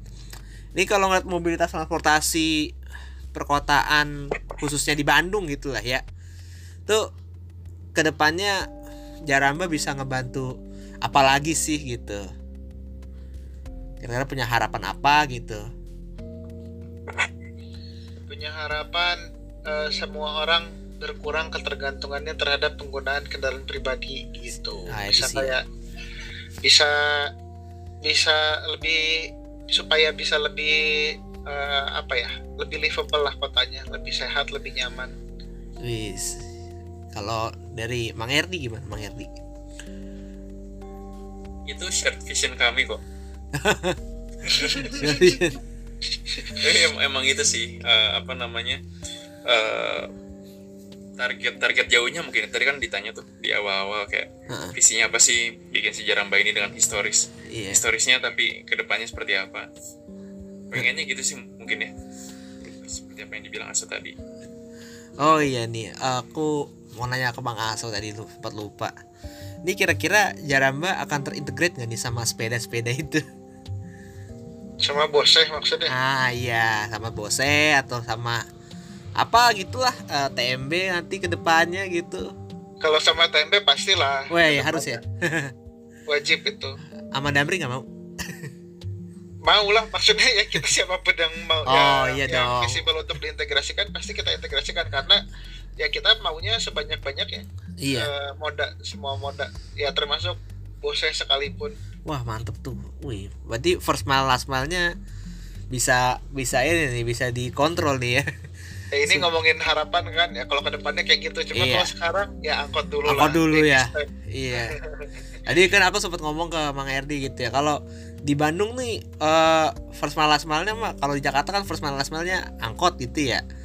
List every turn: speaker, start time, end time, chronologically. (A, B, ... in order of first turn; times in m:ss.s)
0:00.7-0:02.7 A
0:03.3-0:06.0 A
0:08.0-0:08.6 A
0:09.3-0:12.2 A
0:14.0-0:15.6 A
0:18.2-0:25.6 B
0:24.9-0:25.5 A
0:26.6-0:27.3 B
0:28.0-0:35.1 B
0:35.8-0:36.4 A
0:37.1-0:39.4 A
0:41.7-0:43.0 C
0:43.5-0:44.0 A
0:44.4-0:45.2 C
0:44.9-0:45.6 A
0:46.6-0:48.8 C
0:49.5-0:50.1 C
0:51.2-0:59.7 C
0:54.5-0:54.7 A
0:57.5-0:57.8 A
1:00.7-1:01.9 C
1:02.6-1:04.1 C
1:05.2-1:08.9 A
1:09.6-1:13.2 A
1:14.8-1:15.9 B
1:15.9-1:18.4 A
1:19.2-1:22.3 A
1:22.8-1:25.0 B
1:24.3-1:25.5 A
1:26.1-1:26.8 B
1:27.1-1:28.5 A
1:29.4-1:35.2 B
1:31.6-1:32.8 A
1:35.8-1:41.7 B
1:37.8-1:38.1 A
1:42.1-1:44.9 A
1:45.7-1:48.2 A
1:48.9-1:55.1 B
1:51.5-1:51.9 A
1:53.0-1:54.8 A
1:55.4-2:03.4 A